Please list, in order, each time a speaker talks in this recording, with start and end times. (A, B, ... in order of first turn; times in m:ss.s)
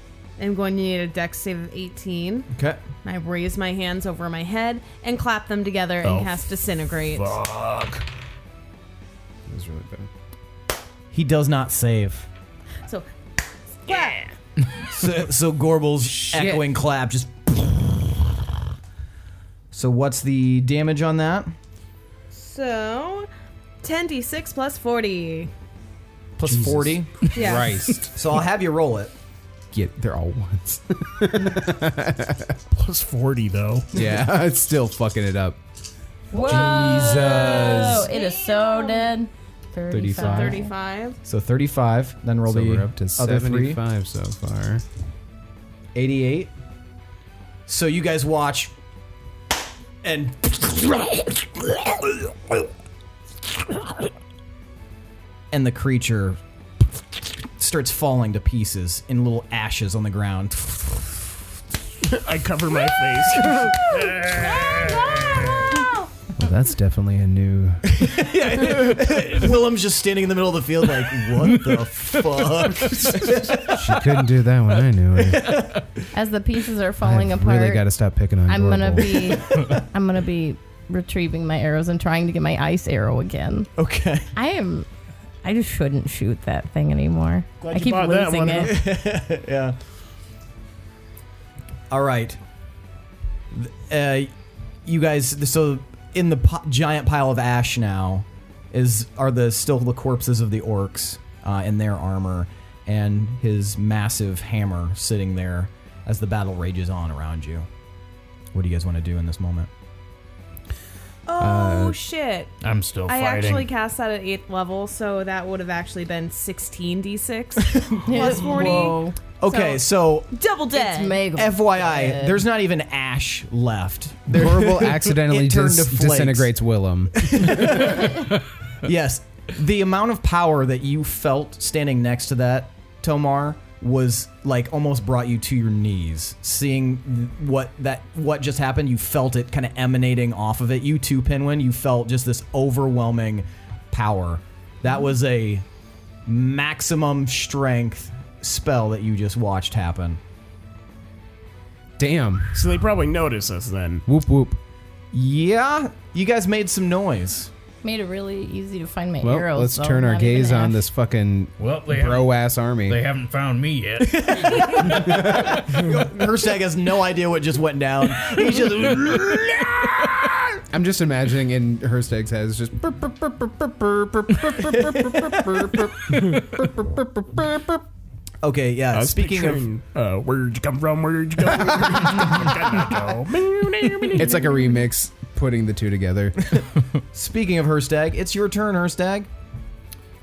0:00.4-0:02.5 A
0:02.5-0:02.8 B
0:03.0-0:07.4 A
0:07.4-0:08.0 C
0:09.5-0:10.1 D
0:11.1-0:12.3 B
0:13.8-0:14.3 A
0:14.8-0:18.2 B
0:16.0-0:16.7 D
0:19.7-0:21.5 B
0:22.3-0:23.3 A
0:23.8-0:25.5 A
0:26.4-0:29.1 B
0:26.4-0:28.2 D
0:27.3-0:27.9 A
0:29.7-0:32.6 D
0:32.7-0:33.9 E
0:33.9-0:35.6 D
0:36.3-0:40.7 F
0:36.3-0:39.1 A
0:36.4-0:38.1 D
0:39.9-0:40.6 D
0:40.1-0:41.2 A
0:41.2-0:43.8 B
0:42.4-0:44.8 D
0:46.0-0:46.5 B
0:47.7-0:48.7 B
0:50.0-0:52.7 B
0:55.5-0:56.4 B
0:57.6-1:01.2 B
1:02.0-1:04.3 E
1:06.4-1:08.1 D
1:07.9-1:14.0 B
1:13.5-1:15.7 D
1:15.4-1:15.8 B
1:16.1-1:17.8 F
1:17.0-1:19.4 D
1:18.5-1:23.7 F
1:23.8-1:24.3 B
1:24.4-1:24.9 F
1:25.4-1:28.7 F
1:27.6-1:28.8 E
1:28.6-1:29.8 B
1:31.9-1:32.4 B
1:33.5-1:34.3 B
1:34.9-1:47.7 B
1:48.5-1:49.7 B
1:51.3-1:52.5 A
1:51.4-1:52.0 D
1:52.6-1:53.7 C
1:53.1-2:01.2 A
1:57.7-1:58.8 B
1:58.0-1:59.2 F
1:59.4-2:00.3 B
2:00.7-2:02.4 F
2:01.4-2:06.5 B
2:04.3-2:08.0 D
2:07.2-2:25.6 B
2:26.3-2:30.2 B
2:32.0-2:32.7 D
2:32.5-2:34.0 E
2:34.1-2:34.6 D
2:35.1-2:37.5 B
2:37.8-2:40.8 F
2:39.2-2:43.0 D
2:41.6-2:42.4 C
2:42.9-2:45.4 C
2:44.0-2:50.6 B
2:50.7-2:57.8 D
2:54.7-2:55.5 B
2:58.4-2:59.6 B
2:58.9-3:04.4 E
3:04.1-3:06.6 D
3:06.5-3:09.3 B